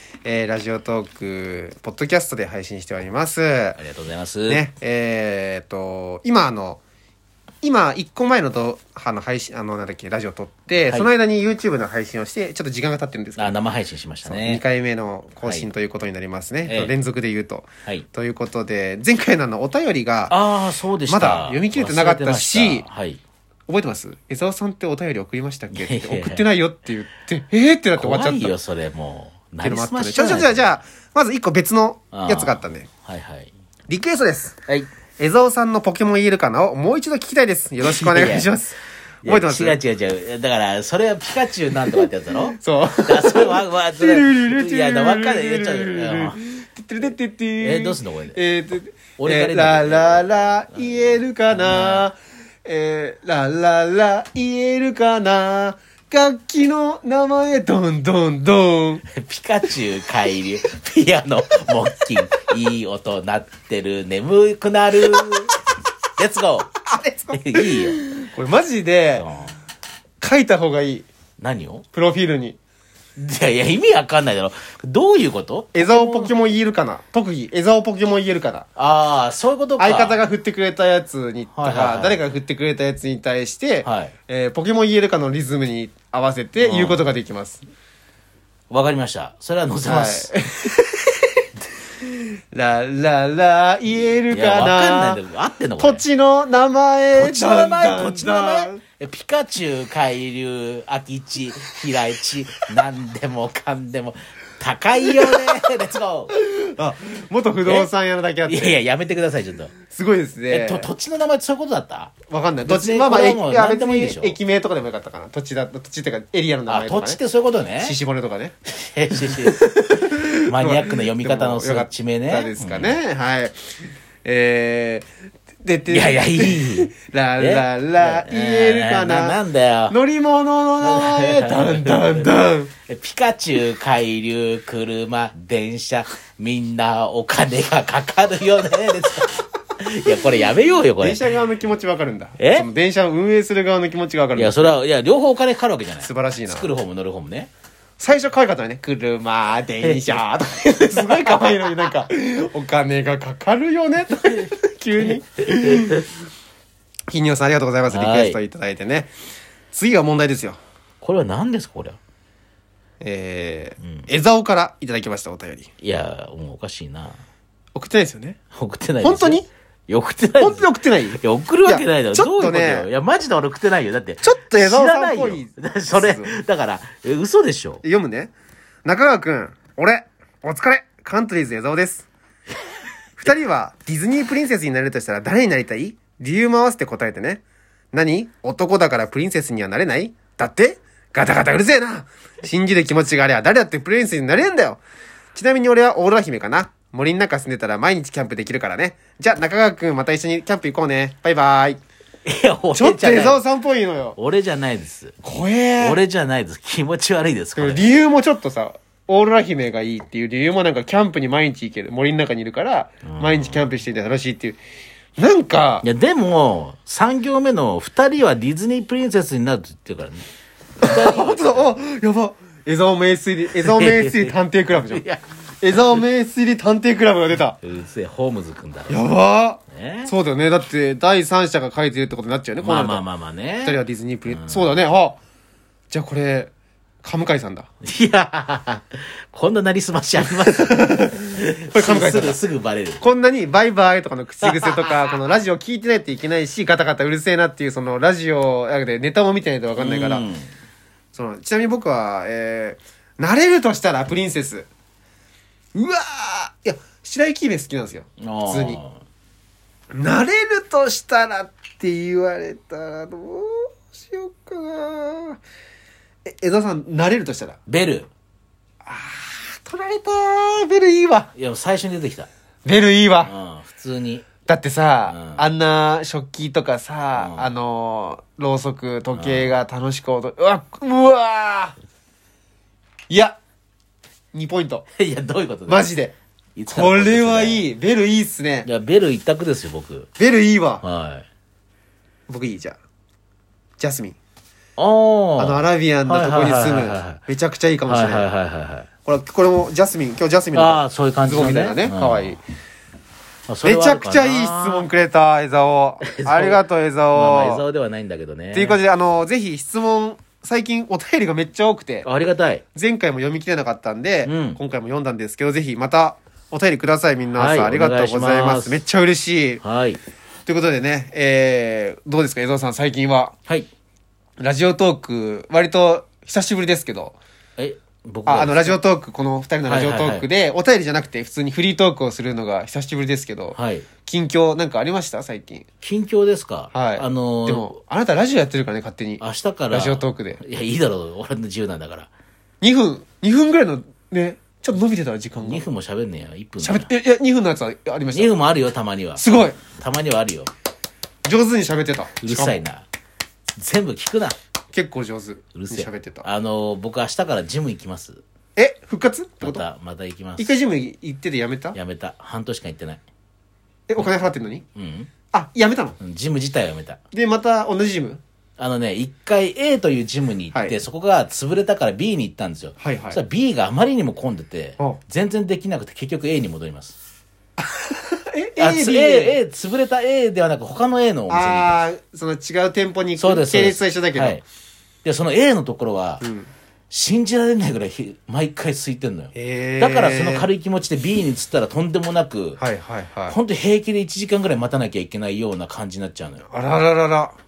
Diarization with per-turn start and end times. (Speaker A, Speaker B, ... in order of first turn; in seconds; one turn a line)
Speaker A: 0.2-3.8
Speaker B: 3.8-4.6
Speaker A: 4.5-6.8
Speaker A: 7.6-13.5
Speaker B: 13.4-14.6
Speaker A: 14.2-20.4
Speaker B: 15.4-15.7
Speaker B: 16.7-16.9
Speaker B: 20.3-23.2
Speaker A: 21.1-22.9
Speaker A: 23.7-28.6
Speaker B: 25.7-26.5
Speaker B: 28.0-30.7
Speaker A: 29.6-32.9
Speaker B: 32.1-33.5
Speaker A: 33.9-34.6
Speaker A: 35.2-39.8
Speaker B: 37.8-38.5
Speaker B: 39.2-46.4
Speaker A: 42.6-59.0
Speaker B: 47.6-48.4
Speaker B: 49.2-52.0
Speaker B: 59.1-65.5
Speaker B: 66.2-66.8
Speaker A: 66.8-69.3
Speaker B: 67.3-68.0
Speaker B: 69.2-69.5
Speaker A: 70.2-71.1
Speaker B: 71.4-71.8
Speaker A: 71.9-72.6
Speaker B: 73.2-76.3
Speaker A: 75.7-78.7
Speaker B: 78.8-80.2
Speaker A: 79.8-87.6
Speaker B: 81.5-82.2
Speaker B: 83.8-84.1
Speaker B: 86.6-87.0
Speaker B: 88.7-90.3
Speaker A: 89.9-91.2
Speaker A: 92.0-95.2
Speaker B: 94.3-96.0
Speaker A: 95.8-98.8
Speaker B: 97.2-106.3
Speaker A: 105.1-105.6
Speaker A: 106.3-108.8
Speaker B: 108.5-109.7
Speaker A: 109.9-110.9
Speaker B: 110.5-112.1
Speaker A: 112.3-117.2
Speaker B: 112.7-114.4
Speaker B: 116.7-118.0
Speaker A: 117.8-118.5
Speaker B: 118.7-119.6
Speaker A: 119.2-123.6
Speaker B: 120.5-123.0
Speaker A: 124.2-125.1
Speaker A: 125.6-129.4
Speaker B: 125.9-130.0
Speaker A: 129.9-132.7
Speaker B: 130.8-132.3
Speaker B: 132.9-141.2
Speaker A: 141.0-144.7
Speaker B: 142.4-142.7
Speaker B: 144.3-147.5
Speaker A: 146.0-146.7
Speaker A: 148.0-156.1
Speaker B: 149.8-152.0
Speaker B: 155.1-156.1
Speaker A: 157.1-159.1
Speaker B: 157.9-158.4
Speaker A: 159.7-160.6
Speaker B: 161.0-162.0
Speaker A: 163.0-165.7
Speaker B: 163.8-164.1
Speaker B: 165.8-167.2
Speaker A: 167.8-168.4
Speaker B: 168.5-177.8
Speaker A: 169.0-169.5
Speaker A: 170.4-172.9
Speaker A: 174.2-176.3
Speaker A: 177.8-178.3
Speaker A: 178.8-182.1
Speaker A: 183.2-194.8
Speaker A: 195.3-201.8
Speaker B: 202.3-203.4
Speaker A: 202.8-204.2
Speaker B: 204.2-205.2
Speaker A: 205.2-206.0
Speaker B: 205.8-207.9
Speaker A: 207.6-214.6
Speaker B: 213.1-213.6
Speaker A: 215.2-215.9
Speaker B: 215.8-220.3
Speaker B: 220.8-221.8
Speaker A: 220.8-225.1
Speaker B: 223.6-224.4
Speaker B: 224.9-226.0
Speaker A: 225.6-227.6
Speaker B: 227.6-229.0
Speaker A: 228.9-233.0
Speaker B: 229.7-230.1
Speaker B: 232.6-234.7
Speaker A: 233.6-235.2
Speaker A: 235.9-236.5
Speaker A: 237.0-237.7
Speaker B: 237.8-243.0
Speaker A: 240.2-242.4
Speaker A: 243.0-250.2
Speaker B: 244.4-245.2
Speaker B: 249.8-250.5
Speaker A: 251.1-254.7
Speaker A: 255.8-258.8
Speaker B: 258.2-259.0
Speaker A: 259.9-265.4
Speaker A: 266.3-267.6
Speaker B: 267.7-268.1
Speaker A: 268.9-271.3
Speaker B: 271.4-272.3
Speaker A: 272.6-273.3
Speaker B: 273.2-274.3
Speaker A: 274.5-281.8
Speaker B: 275.1-275.4
Speaker B: 277.2-277.5
Speaker B: 279.2-279.5
Speaker A: 283.1-283.4
Speaker A: 284.3-284.9
Speaker B: 285.0-285.9
Speaker A: 285.7-286.1
Speaker B: 286.6-287.7
Speaker A: 286.7-288.7
Speaker B: 288.6-290.1
Speaker A: 290.2-290.9
Speaker B: 290.8-291.3
Speaker A: 292.3-292.8
Speaker A: 293.8-294.2
Speaker B: 294.8-297.2
Speaker A: 295.4-298.3
Speaker B: 297.9-298.9
Speaker A: 299.1-302.4
Speaker B: 300.5-302.4
Speaker B: 303.5-304.9
Speaker A: 303.6-307.6
Speaker B: 306.1-306.6
Speaker B: 307.1-308.8
Speaker A: 308.5-312.1
Speaker B: 312.0-312.6
Speaker A: 312.7-319.6
Speaker B: 314.2-314.6
Speaker B: 317.3-318.8
Speaker B: 319.6-320.0
Speaker A: 320.5-323.4
Speaker A: 324.4-327.2
Speaker B: 327.6-328.8
Speaker A: 328.3-335.6
Speaker B: 329.7-330.3
Speaker B: 333.5-333.9
Speaker B: 335.8-337.7
Speaker A: 336.7-340.4
Speaker B: 339.2-342.1
Speaker A: 342.6-345.7
Speaker B: 345.4-346.9
Speaker A: 346.6-348.4
Speaker B: 348.1-350.5
Speaker A: 349.2-349.6
Speaker A: 351.2-352.6
Speaker B: 352.2-352.9
Speaker B: 353.6-354.4
Speaker A: 354.7-356.3
Speaker B: 355.6-358.2
Speaker A: 358.6-359.6
Speaker B: 359.4-360.5
Speaker A: 360.4-361.8
Speaker B: 361.8-363.0
Speaker A: 363.9-364.6
Speaker B: 364.8-365.1
Speaker A: 365.3-366.0
Speaker B: 366.0-367.0
Speaker A: 367.1-368.2
Speaker B: 368.6-377.0
Speaker A: 370.5-370.8
Speaker A: 372.8-373.2
Speaker A: 377.6-379.4
Speaker B: 378.6-381.8
Speaker A: 381.3-384.4
Speaker B: 383.2-384.4
Speaker B: 385.0-386.2
Speaker A: 386.2-386.5
Speaker B: 386.9-392.6
Speaker A: 389.3-390.5
Speaker A: 392.6-393.4
Speaker B: 393.3-396.4
Speaker A: 396.5-397.3